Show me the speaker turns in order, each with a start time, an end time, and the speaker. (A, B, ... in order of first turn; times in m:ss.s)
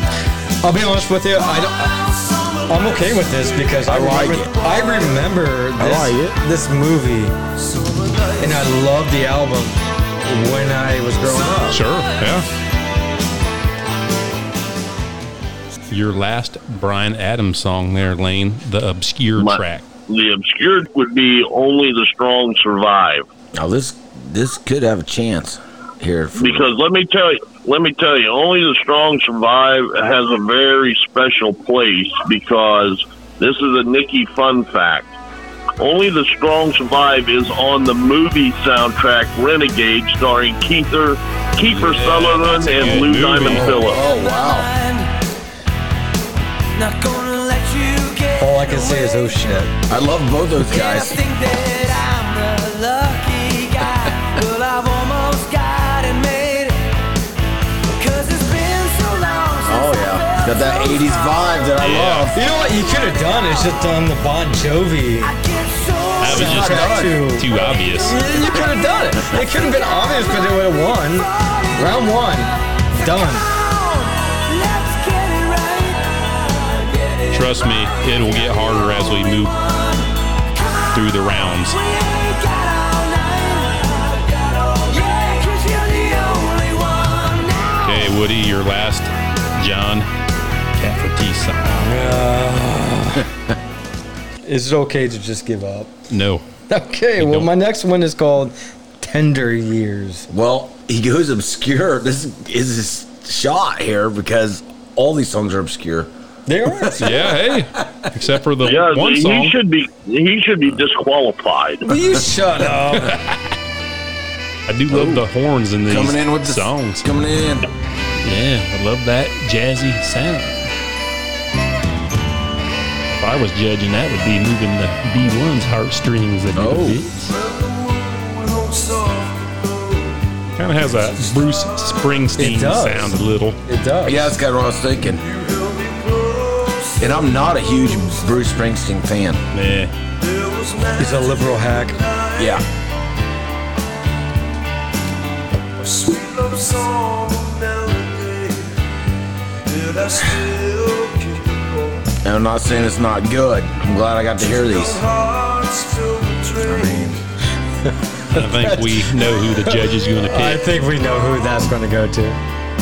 0:00.6-0:02.0 A
0:01.7-0:05.2 B
0:02.7-0:07.3 A
0:03.8-0:04.5 C
0:05.8-0:06.4 C
0:07.7-0:08.7 B
0:08.4-0:11.8 A
0:11.3-0:12.3 B
0:11.7-0:12.5 D
0:15.9-0:19.8 D
0:19.4-0:23.3 E
0:23.6-0:26.7 C
0:26.4-0:35.1 E
0:35.8-0:44.0 E
0:41.7-0:43.8 D
0:43.4-0:44.7 C
0:43.8-0:45.1 B
0:46.8-0:49.4 B
0:48.4-0:49.7 A
0:49.9-0:51.2 C
0:50.6-0:56.8 B
0:57.9-1:01.7 B
0:59.6-1:02.4 C
1:01.8-1:02.3 D
1:02.3-1:05.4 A
1:02.8-1:03.7 B
1:05.2-1:06.6 B
1:06.2-1:08.2 D
1:06.2-1:07.3 C
1:06.3-1:13.5 A
1:07.6-1:08.7 B
1:09.6-1:10.5 B
1:11.2-1:12.1 B
1:13.0-1:28.1 B
1:17.3-1:19.6 D
1:20.9-1:21.8 D
1:27.8-1:30.1 D
1:30.8-1:32.1 D
1:31.8-1:33.3 A
1:34.4-1:35.9 A
1:36.1-1:36.4 D
1:36.7-1:40.3 A
1:37.2-1:37.5 D
1:40.3-1:46.1 C
1:46.5-1:47.4 A
1:46.7-1:48.1 C
1:47.0-1:49.6 D
1:48.6-1:51.9 E
1:51.8-1:53.2 A
1:53.0-1:53.4 D
1:54.7-1:57.1 D
1:54.9-1:55.2 C
1:55.9-1:57.6 C
1:58.2-2:00.7 D
2:03.1-2:07.3 D
2:06.5-2:07.0 C
2:07.4-2:10.0 B
2:10.5-2:13.6 D
2:11.0-2:12.2 B
2:12.4-2:14.4 A
2:14.0-2:15.3 C
2:15.3-2:17.2 B
2:17.0-2:19.4 C
2:19.5-2:19.9 D
2:20.2-2:22.6 B
2:21.0-2:22.0 A
2:22.4-2:22.6 C
2:25.8-2:28.7 B
2:29.7-2:32.0 B
2:32.2-2:35.0 C
2:34.6-2:37.1 B
2:36.6-2:37.2 C
2:37.9-2:42.4 A
2:38.3-2:40.7 D